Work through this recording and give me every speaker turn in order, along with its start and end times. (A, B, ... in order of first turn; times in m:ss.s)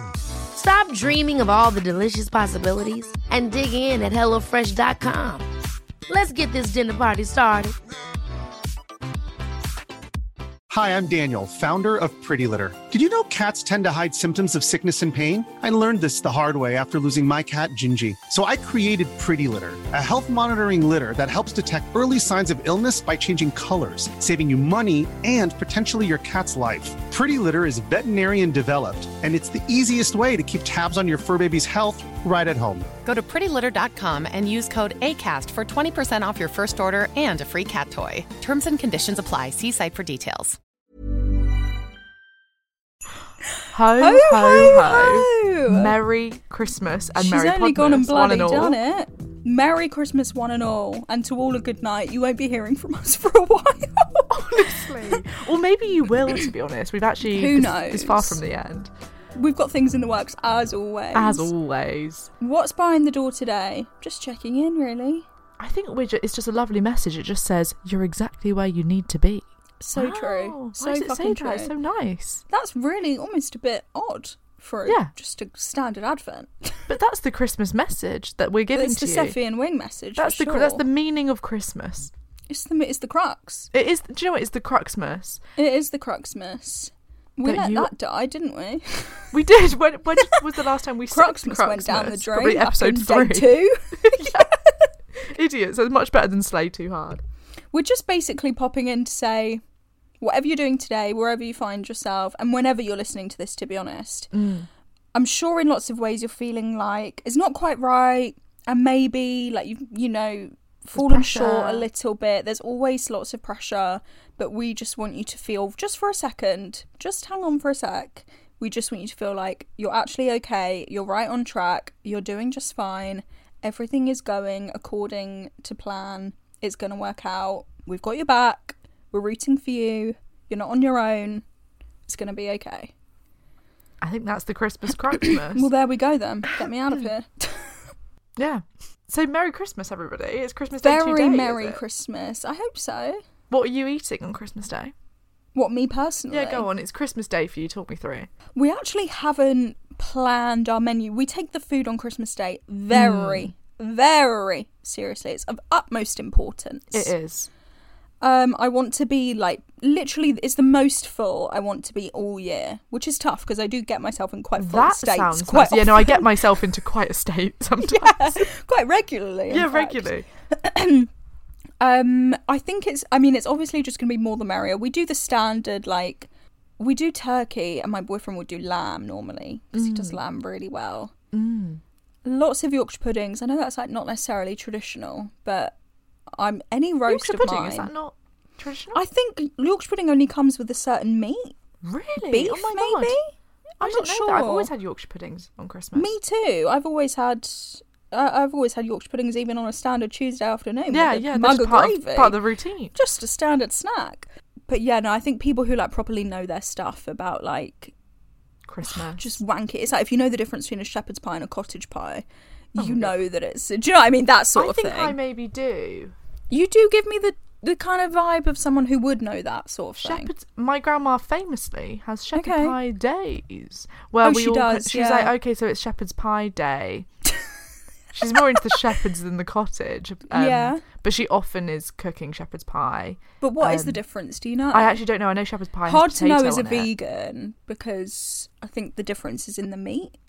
0:00.5-0:05.5 A
0:06.1-0:07.8 A
0:10.7-0:32.9 B
0:33.0-0:40.6 C
0:43.7-0:48.8 D
0:44.0-0:46.0 E
0:47.2-0:55.3 E
0:54.3-0:58.9 D
0:57.2-0:58.4 E
0:59.3-1:01.5 E
1:01.1-1:02.3 D
1:02.4-1:05.3 E
1:05.6-1:12.4 D
1:09.8-1:11.7 E
1:12.5-1:16.9 E
1:14.9-1:15.1 D
1:16.9-1:19.4 D
1:18.7-1:20.9 E
1:20.2-1:22.1 D
1:22.5-1:23.7 E
1:23.7-1:25.4 D
1:25.6-1:29.4 E
1:27.4-1:27.9 D
1:29.3-1:34.5 D
1:31.1-1:34.8 E
1:35.2-1:37.2 D
1:37.7-1:39.6 E
1:40.2-1:44.3 E
1:44.3-1:44.7 D
1:45.1-2:11.5 E
1:51.0-1:51.9 D
2:12.1-2:12.9 E
2:14.0-2:15.7 D
2:15.2-2:17.8 E
2:18.4-2:21.8 D
2:20.8-2:23.2 E
2:23.5-2:24.9 D
2:25.5-2:26.7 E
2:26.3-2:28.3 D
2:28.6-2:37.1 E
2:32.9-2:33.5 D
2:36.9-2:37.5 D
2:38.2-2:46.4 E
2:44.6-2:48.5 D
2:47.8-2:51.1 E
2:49.5-2:50.3 D
2:51.8-3:01.1 E
2:59.7-3:00.2 D
3:01.3-3:01.8 D
3:02.2-3:05.8 E
3:06.4-3:07.9 E
3:07.1-3:09.0 D
3:08.9-3:11.6 E
3:11.8-3:13.2 D
3:12.2-3:13.3 E
3:13.8-3:14.7 E
3:13.8-3:16.2 D
3:16.0-3:22.4 E
3:20.9-3:23.0 D
3:22.9-3:28.0 E
3:28.7-3:29.4 D
3:28.8-3:35.2 E
3:32.8-3:33.2 D
3:34.6-3:36.1 D
3:36.5-3:40.3 E
3:40.0-3:47.1 D
3:42.4-3:42.8 E
3:44.2-3:45.4 E
3:48.1-3:54.0 D
3:48.4-3:48.8 E
3:50.3-3:50.8 E
3:53.4-3:55.0 E
3:54.7-3:56.9 D
3:55.8-4:00.2 E